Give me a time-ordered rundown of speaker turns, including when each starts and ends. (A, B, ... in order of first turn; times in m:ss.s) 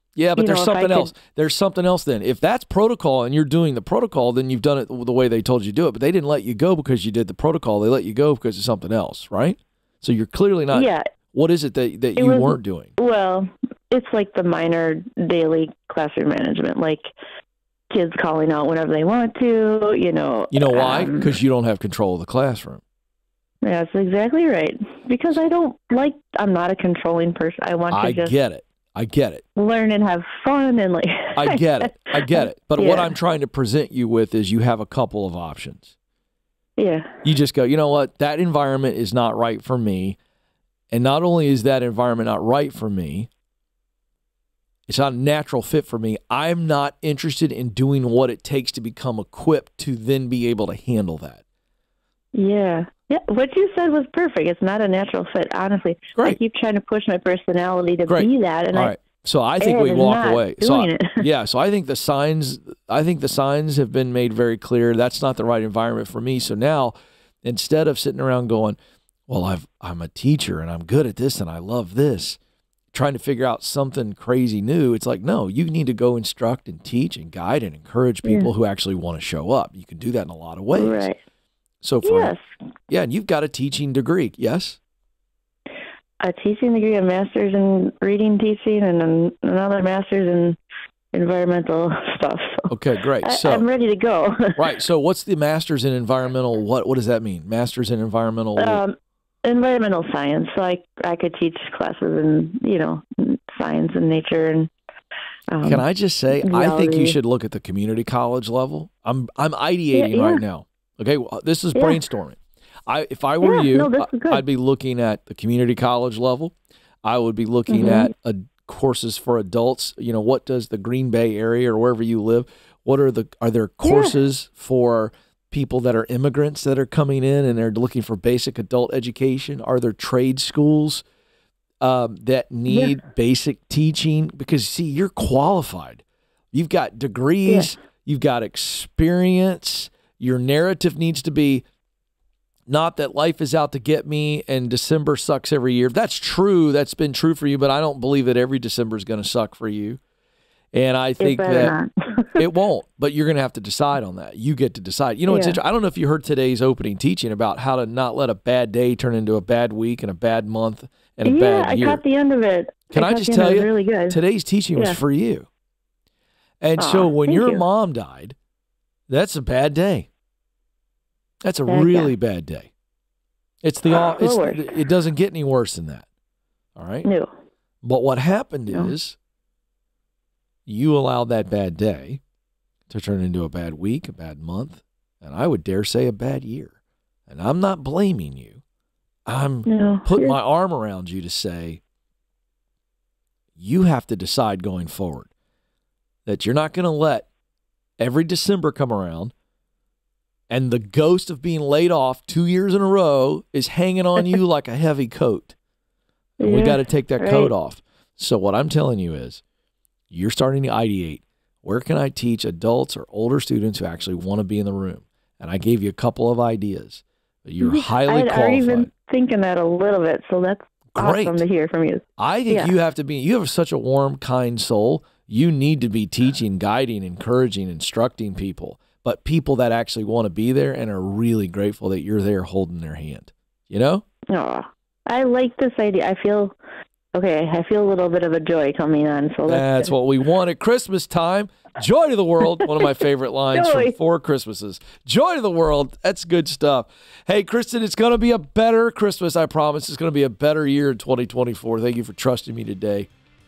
0:00.1-0:12.9 A
0:00.4-0:01.1 B
0:10.7-0:11.0 B
0:12.2-0:17.1 B
0:17.9-0:21.3 B
0:20.5-0:22.8 A
0:23.6-0:28.3 B
0:27.9-0:29.4 A
0:29.6-0:31.6 B
0:31.4-0:35.9 A
0:32.3-0:33.1 B
0:36.8-0:37.1 B
0:37.2-0:40.2 A
0:40.9-0:43.3 A
0:44.9-0:51.4 A
0:52.3-0:59.0 B
0:58.1-1:08.8 A
0:59.6-1:01.2 B
1:09.3-1:12.4 A
1:12.9-1:21.1 A
1:18.2-1:18.5 B
1:20.7-1:21.2 B
1:21.8-1:22.3 A
1:22.0-1:22.5 B
1:22.9-1:24.8 A
1:26.2-1:30.6 B
1:31.1-1:32.7 B
1:32.7-1:33.6 A
1:33.2-1:34.7 B
1:34.6-1:38.8 A
1:38.6-1:44.7 B
1:45.5-1:45.8 B
1:45.6-2:11.0 A
1:46.3-1:47.2 B
1:49.9-1:50.4 B
1:51.7-1:52.0 B
1:53.4-1:54.4 B
1:57.7-1:58.1 B
2:03.8-2:04.2 B
2:11.8-2:21.6 A
2:12.7-2:12.9 B
2:17.4-2:17.7 B
2:22.7-2:30.0 A
2:30.7-2:31.8 A
2:31.2-2:32.4 B
2:32.4-2:42.0 A
2:35.3-2:35.6 B
2:41.2-2:44.2 B
2:42.9-2:45.5 A
2:46.6-2:48.4 A
2:46.8-2:47.6 B
2:49.1-2:50.1 A
2:51.4-2:52.7 A
2:51.7-2:52.1 B
2:53.6-2:56.1 A
2:54.1-2:54.8 B
2:56.8-2:57.1 A
2:57.8-2:59.2 A
3:00.6-3:02.2 A
3:02.9-3:06.7 A
3:07.3-3:08.6 A
3:09.3-3:11.8 A
3:09.6-3:10.4 B
3:13.6-3:15.3 A
3:16.2-3:17.3 A
3:18.0-3:19.3 A
3:20.5-3:25.6 A
3:26.4-3:27.5 B
3:26.4-3:29.4 A
3:30.1-3:38.9 A
3:37.6-3:42.7 B
3:40.9-3:41.4 A
3:42.2-3:54.0 A
3:54.3-3:56.6 B
3:57.1-3:59.9 B
3:59.4-4:13.1 A
4:03.5-4:03.9 B